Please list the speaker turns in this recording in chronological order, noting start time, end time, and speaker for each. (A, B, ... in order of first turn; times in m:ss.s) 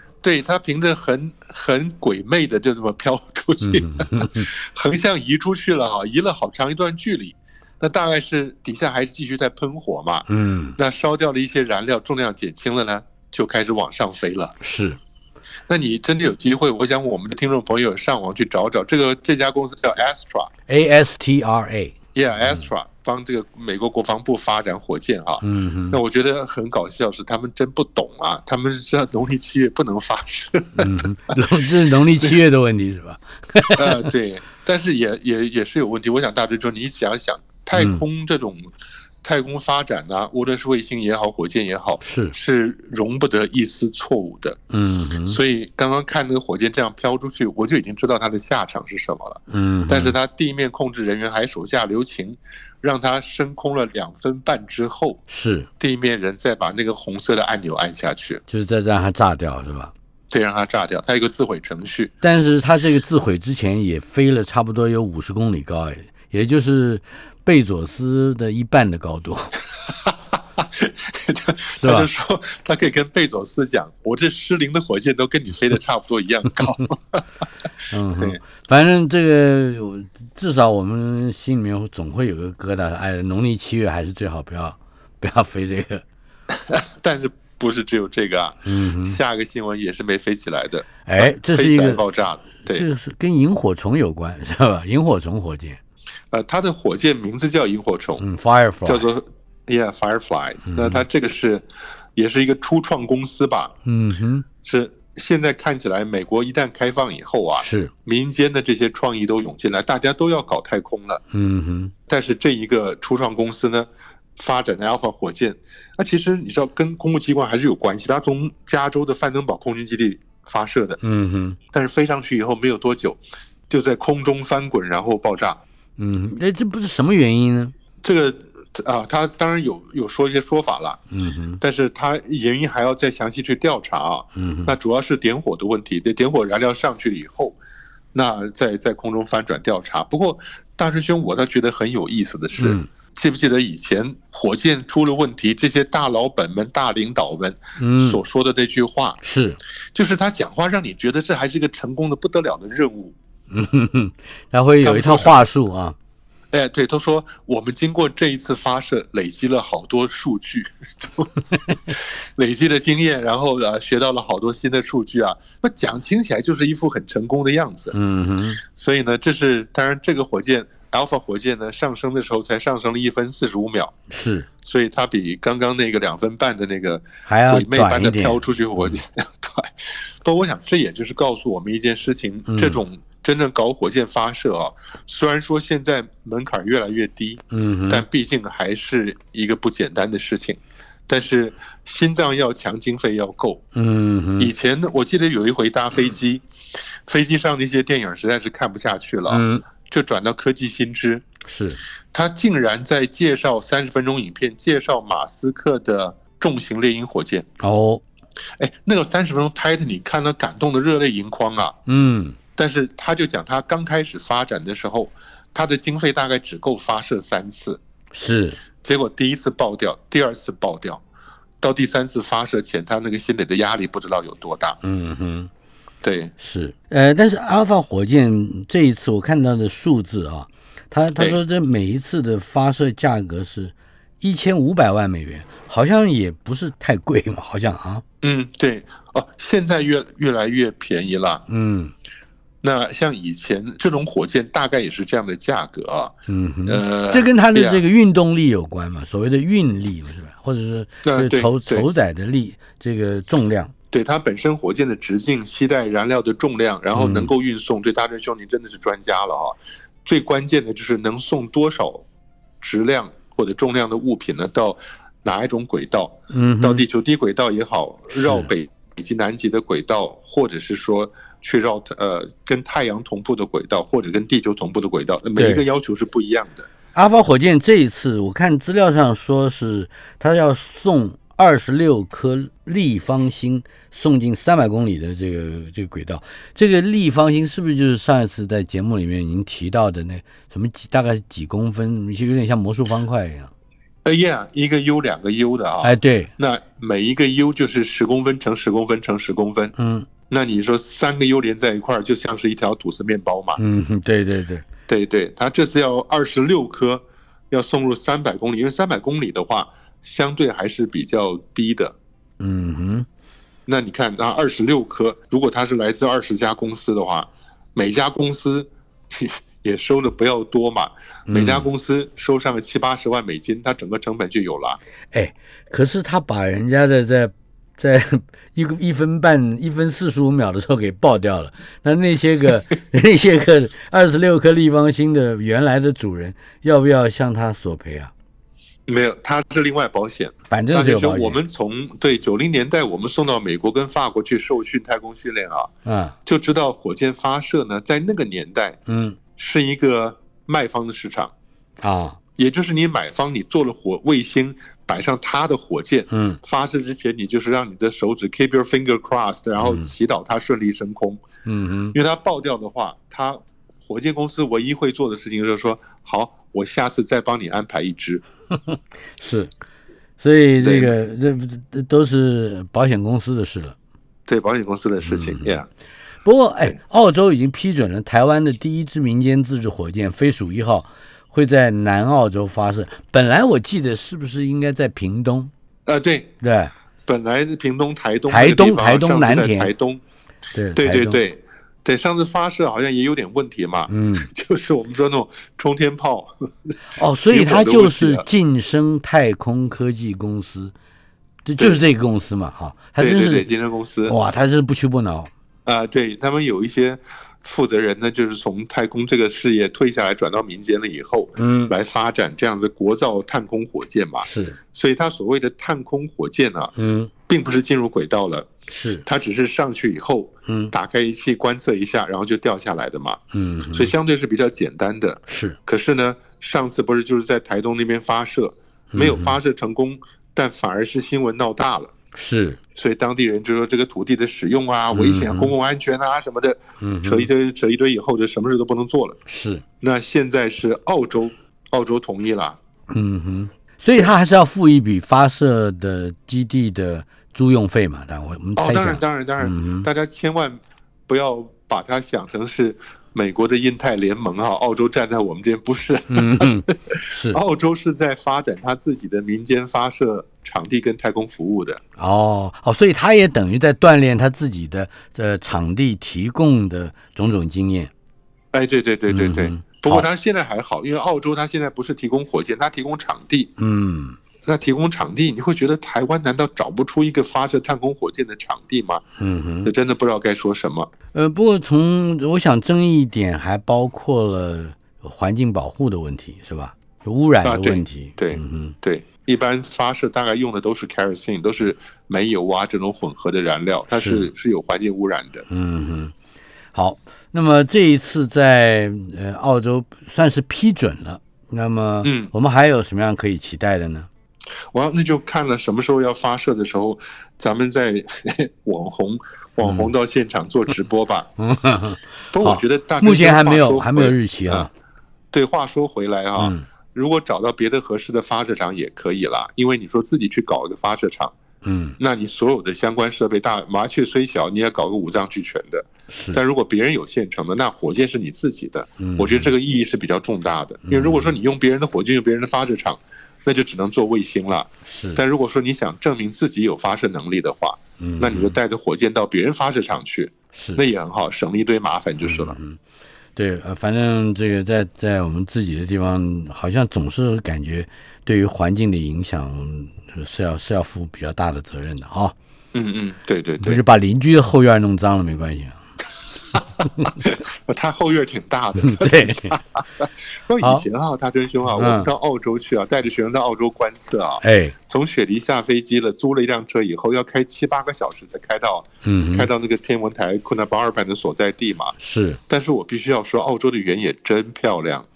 0:00.2-0:14.6 A
0:03.6-0:04.5 B
0:10.3-0:10.8 B
0:14.6-0:15.0 B
0:15.7-0:20.5 A
0:20.7-0:22.6 B
0:22.1-0:31.0 A
0:25.4-0:26.0 B
0:30.8-0:34.1 B
0:33.8-0:38.7 A
0:37.7-0:38.0 B
0:39.2-0:44.6 A
0:42.0-0:42.3 B
0:44.7-0:45.4 B
0:45.2-0:55.2 A
0:49.5-0:50.2 B
0:55.3-0:55.7 B
0:55.8-0:58.4 A
0:58.5-0:59.9 B
1:00.3-1:02.1 A
1:02.2-1:09.5 B
1:09.8-1:17.2 A
1:11.8-1:12.1 B
1:17.9-1:26.0 B
1:26.6-1:32.9 A
1:28.6-1:29.2 B
1:31.0-1:32.0 B
1:32.6-1:35.8 B
1:36.3-1:38.2 A
1:38.2-1:39.1 B
1:38.8-1:43.7 A
1:40.7-1:41.0 B
1:43.8-1:44.5 B
1:44.6-1:51.2 A
1:47.6-1:47.9 B
1:51.3-1:51.9 B
1:52.1-2:01.0 A
2:01.0-2:01.6 B
2:01.7-2:05.6 A
2:06.0-2:07.7 B
2:08.0-2:11.0 A
2:11.1-2:11.6 B
2:11.6-2:17.6 A
2:14.3-2:14.8 B
2:18.1-2:29.2 A
2:22.6-2:22.9 B
2:27.8-2:28.2 B
2:29.2-2:29.6 B
2:29.9-2:33.1 A
2:33.5-2:36.0 B
2:34.8-2:35.5 A
2:36.5-2:47.9 A
2:47.9-2:48.6 B
2:48.6-2:54.0 A
2:54.1-2:54.5 B
2:54.6-3:13.6 A
2:57.2-2:59.0 B
3:02.5-3:02.8 B
3:07.5-3:08.0 B
3:13.7-3:14.5 B
3:14.4-3:16.4 A
3:17.0-3:21.2 A
3:19.3-3:19.6 B
3:21.4-3:21.8 B
3:22.1-3:27.5 A
3:27.6-3:28.0 B
3:28.6-3:31.8 A
3:31.9-3:32.4 B
3:32.6-3:37.8 A
3:38.1-3:38.6 B
3:38.8-3:41.0 A
3:41.6-3:44.8 A
3:44.8-3:45.5 B
3:46.0-3:46.3 A
3:46.4-3:58.0 B
3:58.2-4:01.4 A
4:01.5-4:01.9 B
4:02.6-4:07.8 A
4:06.3-4:13.7 B
4:11.0-4:11.9 A
4:13.9-4:22.0 A
4:16.9-4:17.3 B
4:22.6-4:36.7 A
4:26.3-4:26.8 B
4:28.1-4:28.5 B
4:35.4-4:35.6 B
4:36.9-4:53.5 B
4:54.0-4:59.7 A
4:55.8-4:56.3 B
4:59.8-5:00.1 B
5:00.3-5:03.6 A
5:03.6-5:04.6 B
5:04.9-5:12.0 A
5:12.4-5:13.1 B
5:13.7-5:24.8 A
5:21.3-5:21.7 B
5:25.1-5:38.1 B
5:38.9-5:45.7 A
5:40.5-5:41.4 B
5:45.8-5:46.2 B
5:46.2-5:48.8 A
5:48.9-5:49.2 B
5:49.4-5:51.3 A
5:51.8-5:52.2 B
5:52.4-6:01.2 A
5:56.1-5:56.4 B
5:59.6-5:59.9 B
6:01.4-6:02.0 B
6:01.9-6:08.2 A
6:08.7-6:09.5 B
6:10.2-6:13.7 B
6:10.6-6:10.9 A
6:14.3-6:15.7 A
6:15.0-6:15.6 B
6:16.2-6:25.5 B
6:25.8-6:26.4 A
6:26.4-6:26.7 B
6:27.0-6:30.0 A
6:28.3-6:29.7 B
6:30.5-6:31.2 B
6:30.8-6:38.2 A
6:33.9-6:34.3 B
6:36.9-6:40.7 B
6:41.4-6:43.5 B
6:43.0-6:44.2 A
6:44.1-6:45.3 B
6:45.6-6:56.7 A
6:51.4-6:51.7 B
6:54.2-6:54.6 B
6:56.7-6:57.1 B
6:57.3-6:58.5 A
6:58.7-6:59.0 B
6:59.0-7:11.9 A
7:00.4-7:00.7 B
7:03.3-7:03.9 B
7:05.3-7:05.6 B
7:08.9-7:09.4 B
7:12.1-7:12.6 B
7:12.7-7:19.2 A
7:14.9-7:15.5 B
7:16.8-7:17.3 B
7:19.2-7:19.6 B
7:19.8-7:22.6 A
7:22.9-7:29.9 B
7:28.6-7:41.8 A
7:36.1-7:37.4 B
7:42.0-7:47.9 B
7:48.5-7:53.5 A
7:49.1-7:50.1 B
7:53.6-7:54.2 B
7:54.4-7:59.0 A
7:59.2-7:59.7 B
7:59.6-8:00.9 A
8:01.1-8:08.7 B
8:07.4-8:15.4 A
8:13.9-8:14.3 B
8:15.5-8:16.1 B
8:16.7-8:24.1 B
8:22.0-8:22.3 A
8:24.7-8:31.3 A
8:29.6-8:29.9 B
8:31.4-8:34.7 B
8:32.3-8:34.7 A
8:35.3-8:41.3 A
8:36.4-8:36.6 B
8:41.6-8:42.0 B
8:42.0-9:02.6 A
8:46.1-8:46.4 B
8:49.0-8:49.5 B
8:50.9-8:51.4 B
8:54.8-8:55.2 B
8:58.0-8:58.6 B
9:00.5-9:00.8 B
9:02.2-9:02.8 B
9:03.4-9:12.3 B
9:12.7-9:13.8 A
9:13.6-9:15.8 B
9:16.5-9:31.9 A
9:18.8-9:19.6 B
9:20.6-9:20.8 B
9:21.7-9:22.1 B
9:24.4-9:24.7 B
9:29.0-9:29.5 B
9:32.0-9:32.4 B
9:32.5-9:35.1 A